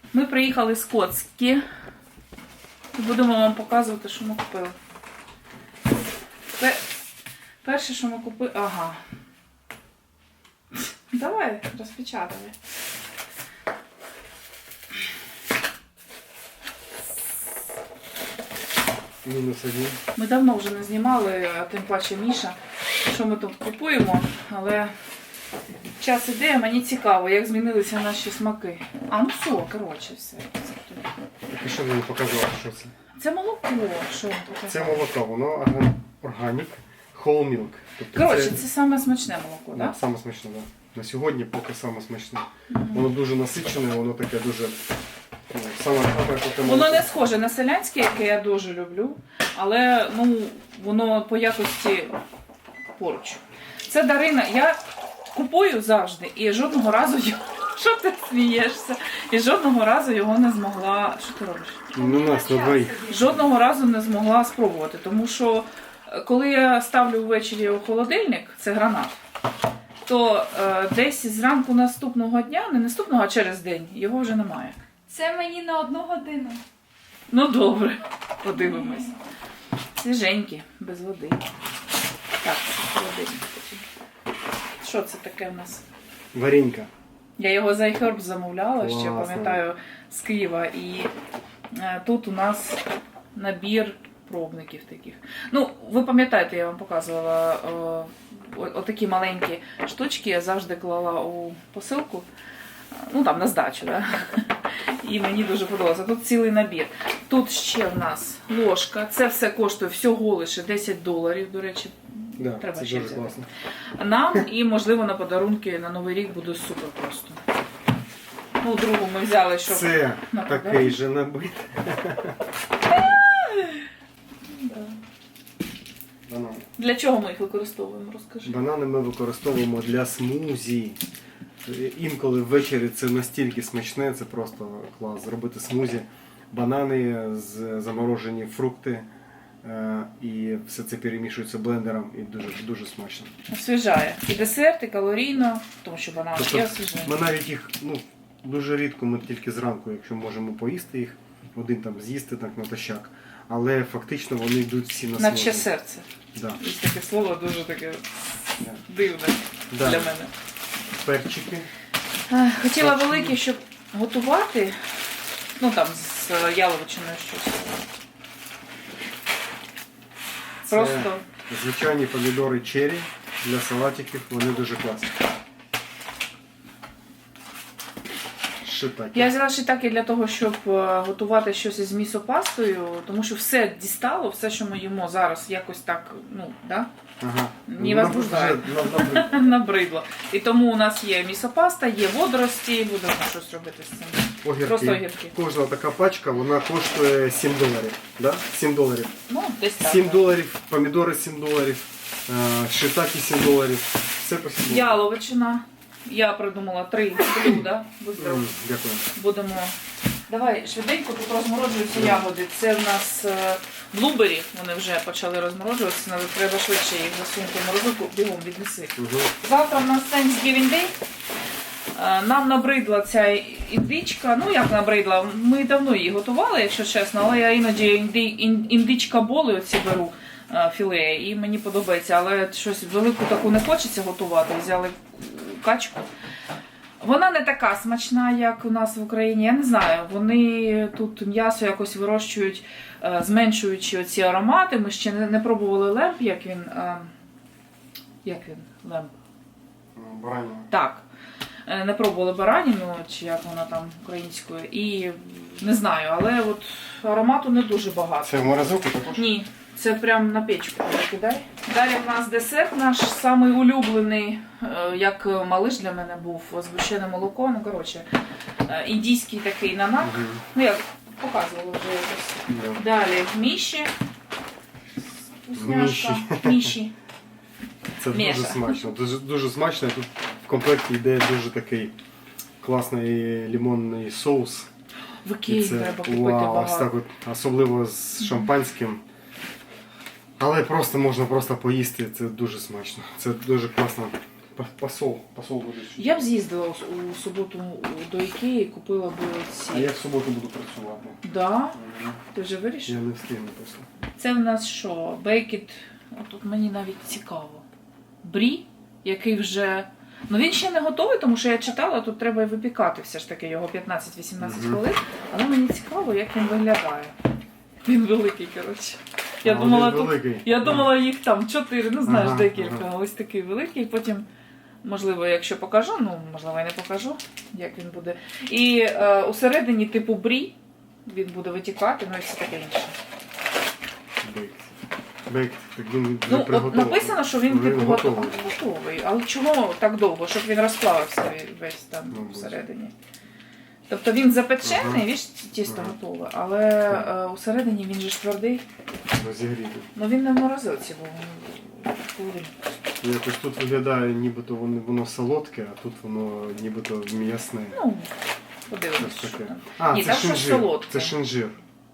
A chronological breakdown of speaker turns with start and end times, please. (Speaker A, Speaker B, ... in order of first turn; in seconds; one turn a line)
Speaker A: 0.1-1.6
Speaker A: 2.9-4.8
Speaker A: 6.6-6.8
Speaker A: 7.6-9.0
Speaker A: 11.1-12.6
Speaker B: 19.2-20.0
Speaker A: 20.2-24.9
Speaker A: 26.0-31.1
Speaker B: 31.5-32.9
Speaker A: 33.1-35.0
Speaker B: 34.7-38.7
Speaker A: 38.1-40.0
Speaker B: 39.7-44.8
Speaker A: 42.7-43.1
Speaker B: 45.5-47.1
Speaker A: 46.6-52.2
Speaker A: 53.0-54.8
Speaker A: 55.3-69.2
Speaker B: 61.9-63.4
Speaker C: 62.2-62.9
Speaker A: 70.0-74.8
Speaker C: 75.1-76.6
Speaker A: 77.3-79.1
Speaker A: 80.0-81.4
Speaker A: 82.4-83.8
Speaker A: 84.8-85.8
Speaker B: 86.3-86.9
Speaker A: 87.4-91.1
Speaker B: 88.8-89.6
Speaker A: 91.7-92.8
Speaker A: 93.3-102.3
Speaker A: 102.9-113.4
Speaker B: 112.4-113.5
Speaker A: 114.0-117.4
Speaker A: 118.6-121.0
Speaker B: 119.7-122.4
Speaker A: 122.9-123.9
Speaker A: 124.5-125.0
Speaker B: 126.3-126.7
Speaker A: 126.8-128.6
Speaker B: 128.4-131.0
Speaker B: 131.6-139.1
Speaker B: 139.6-143.3
Speaker A: 143.5-147.2
Speaker B: 146.3-155.7
Speaker A: 155.2-160.3
Speaker B: 159.7-160.2
Speaker B: 161.0-161.7
Speaker A: 162.3-167.9
Speaker B: 162.7-163.4
Speaker A: 170.6-171.2
Speaker B: 170.7-175.2
Speaker B: 178.6-179.3
Speaker A: 179.1-186.9
Speaker B: 187.2-189.6
Speaker A: 187.7-195.3
Speaker B: 194.4-199.1
Speaker A: 199.3-200.2
Speaker B: 199.8-205.0
Speaker A: 204.7-208.5
Speaker B: 208.2-209.1
Speaker A: 209.1-209.8
Speaker A: 210.3-220.9
Speaker B: 211.9-212.2
Speaker B: 219.0-219.3
Speaker A: 221.9-236.1
Speaker A: 237.0-247.1
Speaker A: 248.2-249.1
Speaker B: 249.9-250.7
Speaker A: 250.7-251.1
Speaker A: 251.7-258.5
Speaker B: 258.2-259.3
Speaker A: 259.1-268.1
Speaker A: 268.7-273.9
Speaker B: 270.0-270.4
Speaker B: 272.5-272.8
Speaker A: 275.4-276.9
Speaker B: 275.5-276.8
Speaker B: 278.0-281.9
Speaker A: 278.1-278.8
Speaker B: 282.6-284.7
Speaker A: 285.2-286.9
Speaker B: 285.5-289.0
Speaker A: 288.2-288.5
Speaker B: 290.4-296.2
Speaker A: 296.0-299.9
Speaker B: 299.7-301.2
Speaker A: 301.2-301.8
Speaker B: 301.7-302.2
Speaker A: 302.3-303.0
Speaker B: 302.9-303.9
Speaker A: 304.2-307.6
Speaker A: 308.2-317.1
Speaker B: 314.4-314.8
Speaker A: 317.9-324.3
Speaker B: 319.4-321.0
Speaker B: 322.1-322.9
Speaker A: 324.8-330.6
Speaker A: 331.1-333.0
Speaker B: 334.2-334.7
Speaker B: 335.3-338.4
Speaker A: 336.3-342.9
Speaker B: 342.1-342.6
Speaker A: 343.9-348.6
Speaker B: 344.6-345.1
Speaker B: 345.6-345.9
Speaker B: 349.1-349.9
Speaker A: 349.9-352.6
Speaker B: 353.0-357.8
Speaker A: 357.7-358.1
Speaker A: 358.7-361.2
Speaker B: 359.0-361.6